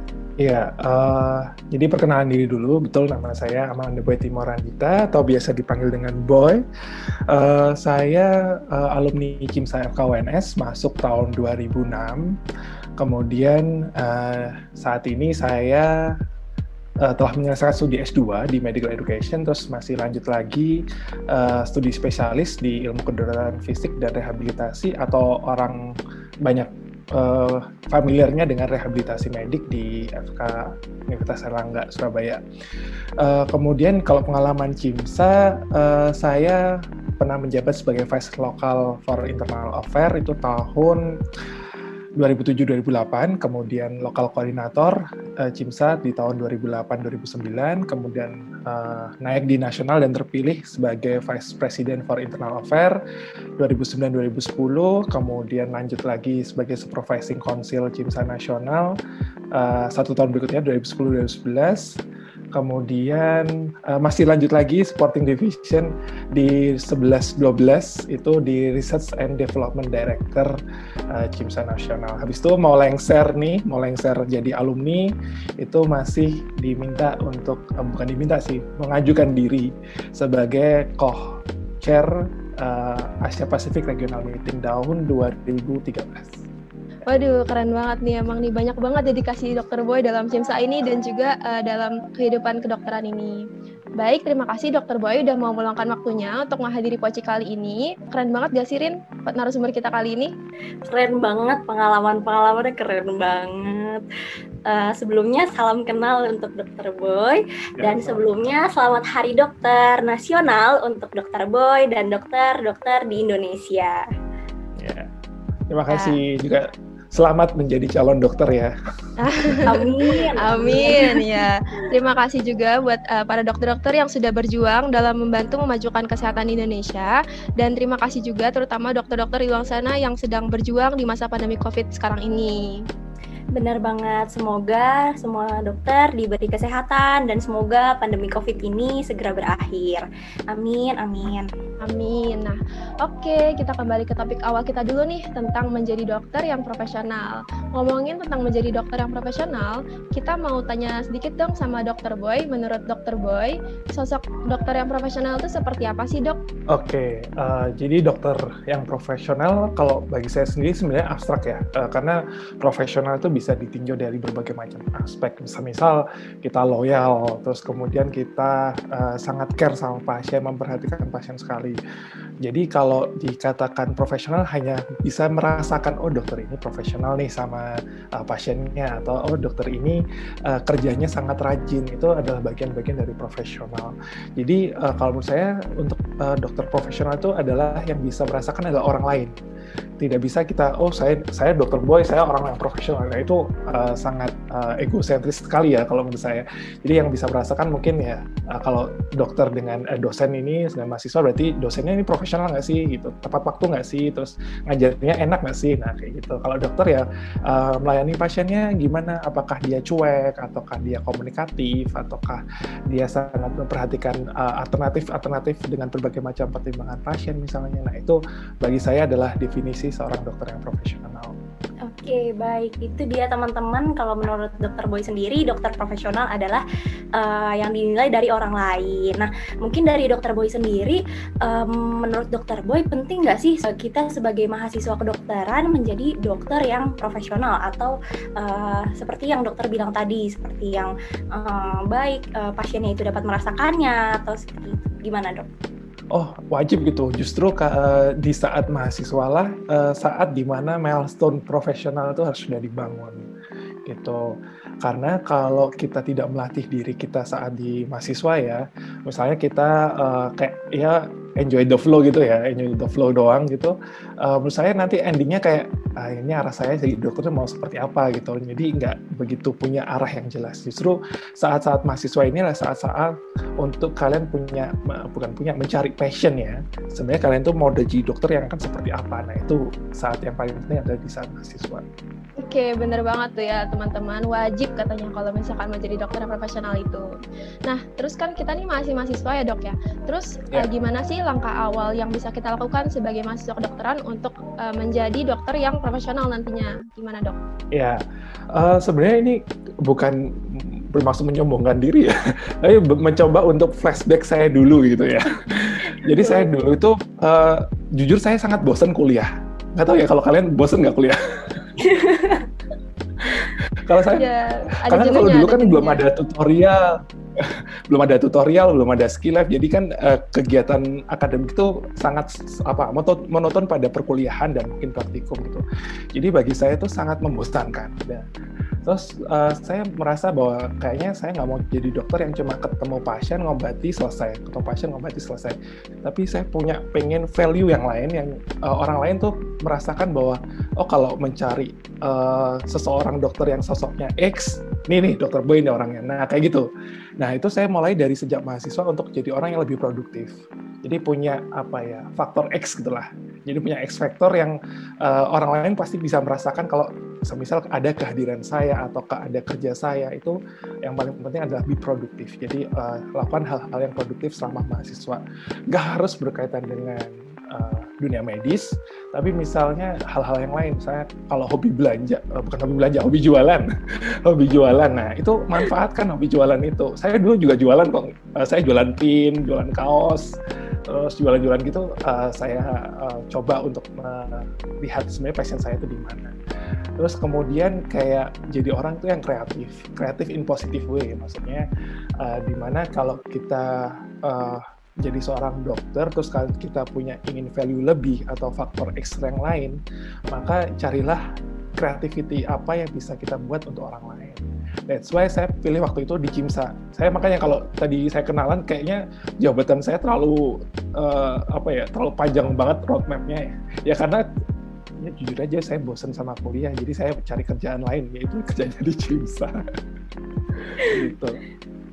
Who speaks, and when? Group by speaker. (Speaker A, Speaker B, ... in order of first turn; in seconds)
Speaker A: 0.4-6.6, 7.3-12.3, 13.0-15.9, 17.0-25.8, 26.4-32.4, 33.2-36.6, 37.2-41.0, 42.2-53.0, 53.6-59.0, 59.5-62.0, 62.5-70.5, 71.1-81.2, 81.8-86.3, 107.8-108.3, 114.8-115.1, 115.7-118.7, 156.7-171.8, 172.4-189.3, 190.0-221.3, 246.1-253.3, 253.8-254.2, 254.8-281.8, 297.7-298.0, 298.5-311.8, 313.3-314.3, 314.9-316.8, 317.4-328.2, 328.8-346.7, 347.2-350.3, 350.8-373.7, 374.2-386.3, 387.0-391.6, 392.2-399.8, 400.3-401.2, 401.8-414.2, 415.0-419.6, 420.6-421.4
Speaker B: 87.1-93.4, 94.0-100.3, 119.2-119.8, 120.4-132.6, 141.8-156.4, 282.4-287.1, 287.6-297.4, 314.1-316.0
Speaker C: 100.8-104.0, 104.7-114.0, 119.7-121.4, 133.5-141.5, 221.8-226.6, 227.1-245.5, 306.0-306.4, 311.8-312.5